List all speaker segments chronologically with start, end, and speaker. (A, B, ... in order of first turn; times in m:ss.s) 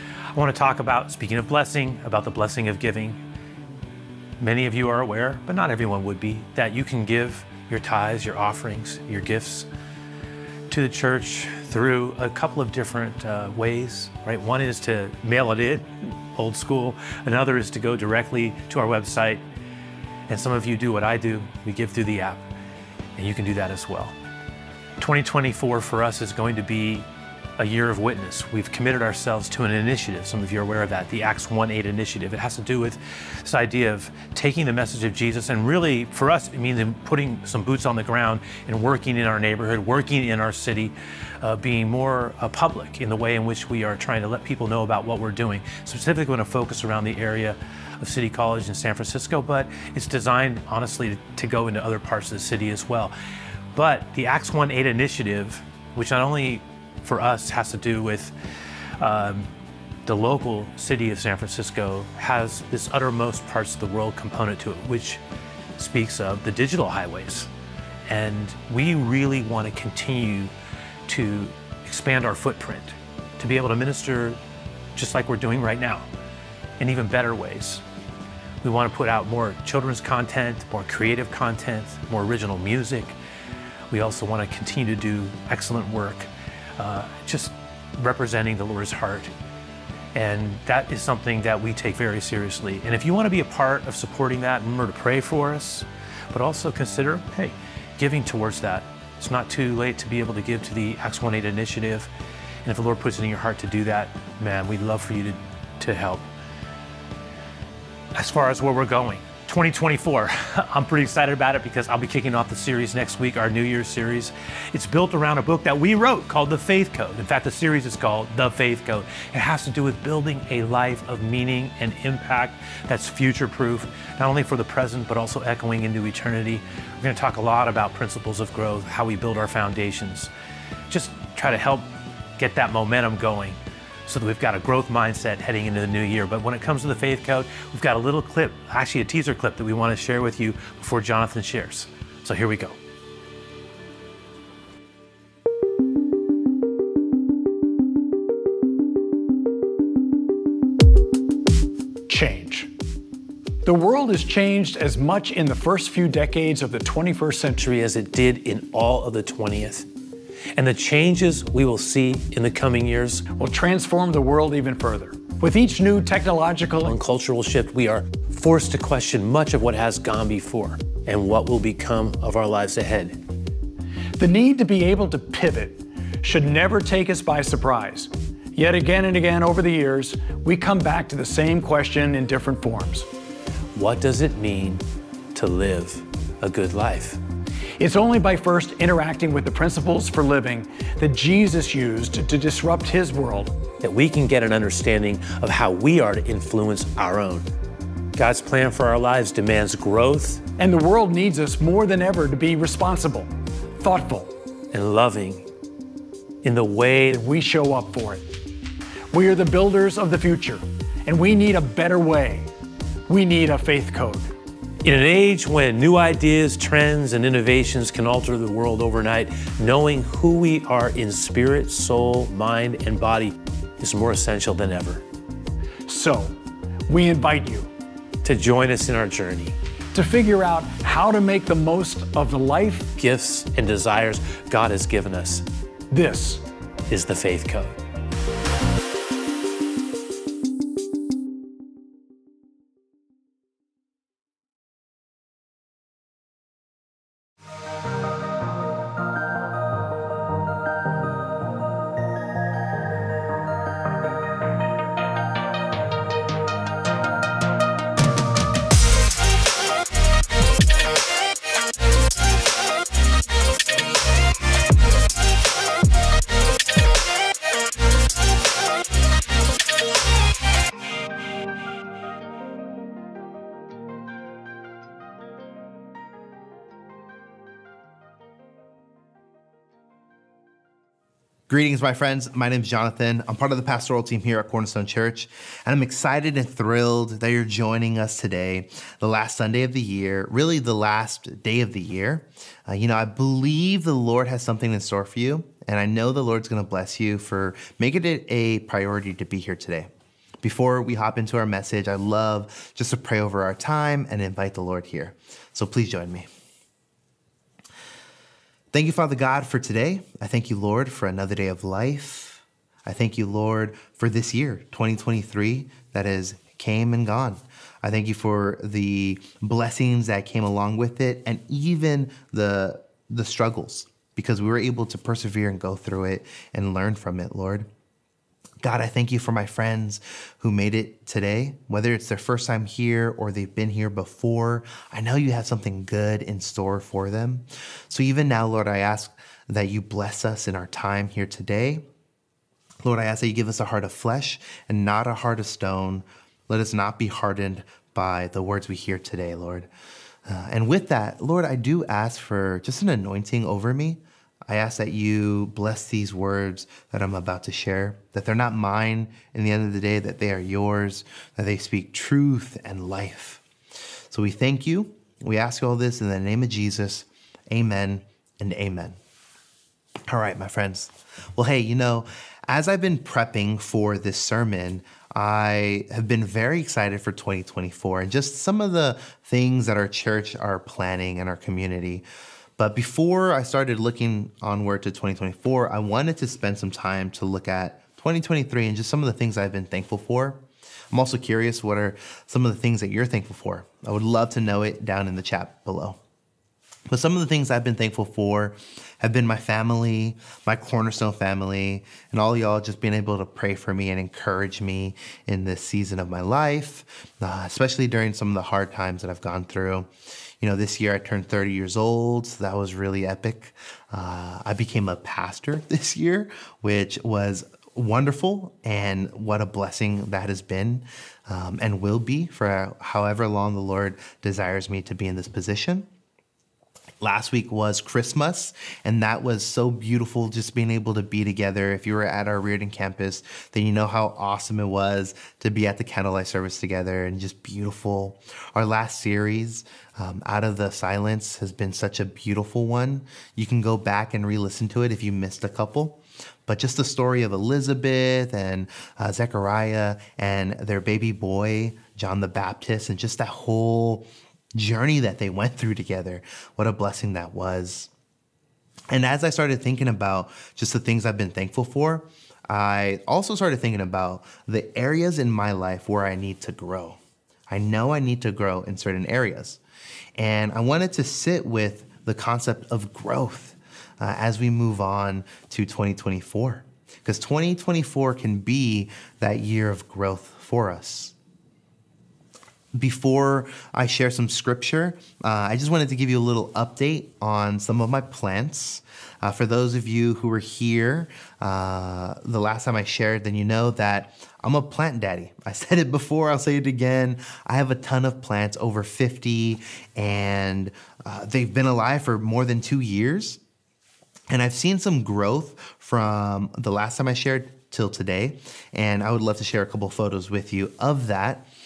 0:00.3-0:03.2 A
0:04.4-0:09.7 A
0:10.7-0:19.4 A
0:20.3-0:22.4 A
0:23.2-0:24.1 A
0:25.0-0:27.1 A
0:27.6-0:53.1 A
0:53.7-0:58.3 A
0:59.0-0:59.5 A
1:00.0-1:05.2 A
1:05.8-1:07.5 A
1:08.1-1:10.5 A
1:11.1-1:14.4 A
1:15.0-1:16.1 A
1:16.8-1:17.8 A
1:18.6-1:23.2 A
1:23.9-1:29.3 A
1:30.1-1:42.1 A
1:42.6-1:46.2 A
1:48.1-2:10.3 A
2:10.9-2:22.8 A
2:32.1-2:32.7 B
2:33.6-2:37.6 B
2:37.5-2:39.9 A
2:40.5-2:43.3 A
2:43.4-2:46.9 B
2:46.8-2:53.2 A
2:54.2-3:03.1 B
3:03.7-3:07.2 A
3:07.8-3:13.6 B
3:13.8-3:17.5 A
3:18.2-3:20.4 A
3:20.6-3:24.3 B
3:24.7-3:25.5 A
3:26.4-3:27.2 A
3:27.1-3:28.3 B
3:29.1-3:32.5 B
3:33.1-3:34.3 B
3:34.8-3:45.0 A
3:45.9-3:46.4 B
3:46.9-3:47.7 B
3:48.2-3:49.6 A
3:49.9-3:52.9 B
3:53.0-3:55.5 A
3:55.9-3:56.4 B
3:56.9-3:57.8 A
4:41.5-4:59.9 C
5:00.4-5:06.3 C
5:08.7-5:27.7 C
5:28.6-5:41.8 C
5:42.8-5:49.7 C
5:50.2-6:03.4 C
6:04.1-6:09.0 C
6:10.1-6:22.0 C
6:22.6-6:36.0 C
6:36.9-6:49.9 C
6:50.4-7:05.9 C
7:07.0-7:37.9 C
7:38.9-7:47.0 C
7:47.5-7:49.6 C
7:50.2-8:01.1 C
8:02.7-8:23.4 C
8:24.3-8:31.5 C